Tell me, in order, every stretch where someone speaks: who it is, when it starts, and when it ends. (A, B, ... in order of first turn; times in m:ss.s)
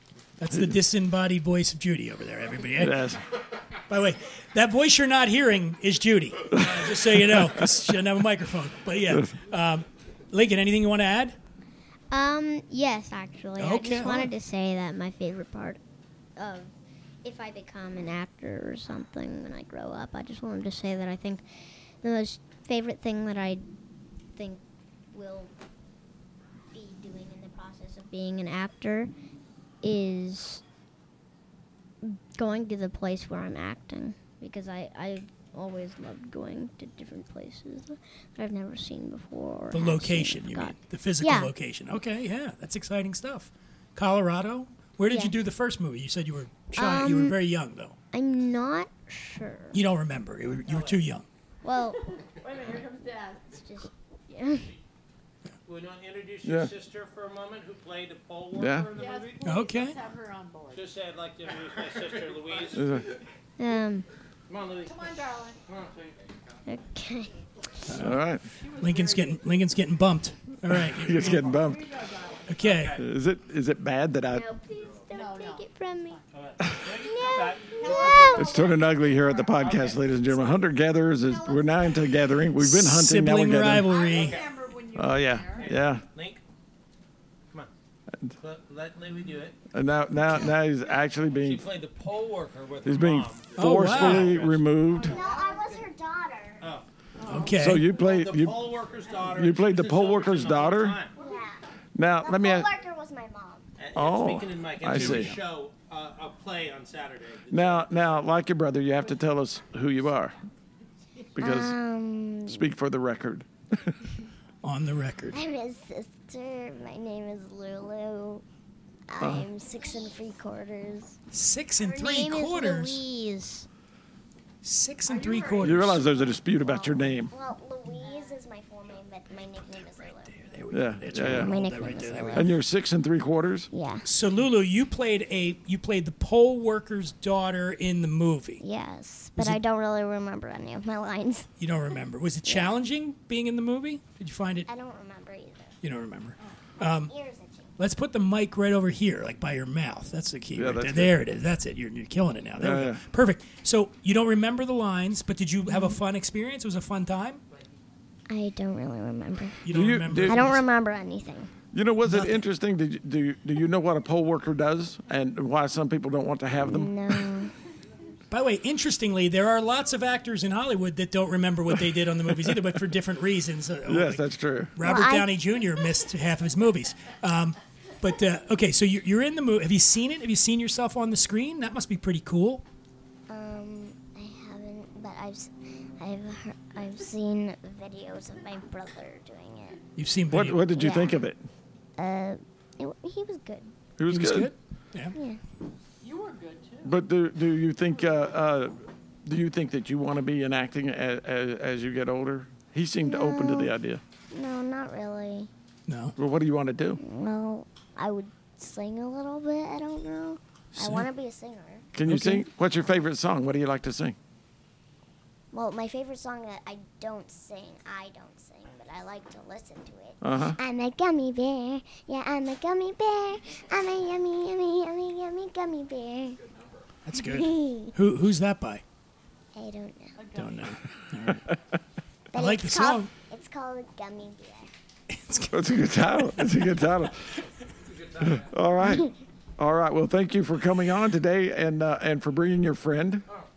0:00.4-0:03.1 A
0:02.8-0:03.2 B
0:03.9-0:11.4 A
0:06.5-0:07.6 B
0:12.1-0:15.8 C
0:13.6-0:14.3 A
0:16.4-0:16.7 C
0:17.2-0:21.4 C
0:22.0-0:23.6 C
0:24.4-0:25.5 C
0:26.7-0:29.1 C
0:29.8-0:30.6 C
0:32.0-0:41.5 C
0:39.7-0:47.9 A
0:45.1-0:45.3 C
0:46.7-0:47.4 C
0:48.1-0:49.8 C
0:49.7-0:51.2 A
0:50.7-0:51.0 D
0:51.6-0:52.0 C
0:52.2-0:53.6 E
0:53.5-0:54.7 C
0:55.6-0:59.9 D
0:56.4-0:56.7 B
0:58.5-0:58.9 B
0:58.9-1:00.9 E
0:59.4-1:00.0 A
1:00.7-1:03.2 D
1:02.7-1:03.1 B
1:03.6-1:04.0 C
1:04.5-1:05.1 D
1:04.8-1:05.6 E
1:05.6-1:06.2 D
1:06.7-1:07.4 C
1:07.9-1:08.2 A
1:07.9-1:08.4 B
1:08.4-1:09.5 E
1:08.8-1:11.5 A
1:10.7-1:11.9 B
1:11.3-1:12.5 E
1:12.4-1:13.0 A
1:12.6-1:13.0 D
1:12.9-1:14.5 B
1:14.3-1:16.2 C
1:15.1-1:16.4 E
1:16.3-1:18.5 D
1:16.6-1:16.9 B
1:17.0-1:20.1 E
1:17.1-1:18.5 F
1:18.3-1:23.9 B
1:19.6-1:20.6 D
1:21.1-1:22.2 E
1:22.6-1:24.4 A
1:23.8-1:25.8 E
1:24.1-1:24.5 D
1:24.9-1:26.0 B
1:25.6-1:26.4 D
1:28.4-1:29.6 D
1:29.7-1:31.6 B
1:31.4-1:34.8 D
1:32.8-1:35.1 B
1:33.6-1:34.4 A
1:34.8-1:35.9 E
1:35.0-1:36.6 F
1:36.6-1:36.8 D
1:37.2-1:37.8 E
1:37.2-1:37.8 A
1:37.5-1:38.6 B
1:37.9-1:41.2 D
1:39.2-1:41.0 B
1:41.2-1:41.6 F
1:41.9-1:42.7 B
1:42.2-1:43.6 F
1:43.8-1:48.1 D
1:43.9-1:45.4 B
1:44.9-1:45.4 A
1:47.5-1:50.4 B
1:51.4-1:51.8 B
1:51.4-1:52.7 F
1:52.5-1:54.0 B
1:54.6-1:55.4 A
1:55.3-1:58.4 F
1:59.1-2:01.2 F
1:59.2-1:59.4 B
2:01.3-2:03.0 A
2:01.8-2:03.7 C
2:04.6-2:06.0 A
2:05.0-2:06.9 E
2:05.6-2:07.3 B
2:06.7-2:10.4 F
2:08.0-2:08.4 E
2:10.3-2:12.5 A
2:10.7-2:11.5 B
2:11.2-2:12.6 F
2:12.3-2:13.7 B
2:13.7-2:14.1 F
2:14.0-2:18.6 A
2:18.6-2:21.5 F
2:21.6-2:24.7 A
2:22.4-2:22.7 F
2:24.7-2:25.7 F
2:25.8-2:27.1 A
2:26.8-2:27.7 F
2:27.8-2:37.4 A
2:30.5-2:31.1 B
2:32.6-2:33.0 B
2:35.7-2:36.0 F
2:38.3-2:41.5 F
2:39.6-2:40.6 A
2:39.7-2:40.4 B
2:41.7-2:47.3 B
2:42.0-2:42.4 A
2:46.6-2:47.5 F
2:48.3-3:02.6 A
2:52.3-2:52.6 B
2:53.8-2:54.8 B
2:54.8-2:55.3 F
3:03.3-3:09.8 F
3:10.0-3:10.6 A
3:10.3-3:11.4 B
3:10.7-3:11.2 F
3:12.0-3:13.7 F
3:14.0-3:14.5 B
3:14.1-3:15.2 A
3:15.1-3:15.4 F
3:16.0-3:17.0 E
3:16.8-3:24.0 B
3:23.0-3:23.7 F
3:24.3-3:25.5 F
3:25.9-3:26.1 A
3:26.2-3:27.0 B
3:27.0-3:31.9 F
3:30.7-3:31.1 A
3:31.9-3:34.2 B
3:32.0-3:32.4 A
3:35.5-3:46.4 F
3:40.2-3:40.6 B
3:47.0-3:48.8 A
3:47.1-3:47.9 F
3:49.5-3:50.2 F
3:50.2-3:50.8 E
3:50.3-3:51.5 A
3:52.3-3:54.7 F
3:52.3-3:53.1 A
3:55.1-3:55.8 A
3:55.5-3:57.4 B
3:58.2-4:03.2 B
3:58.8-3:59.1 F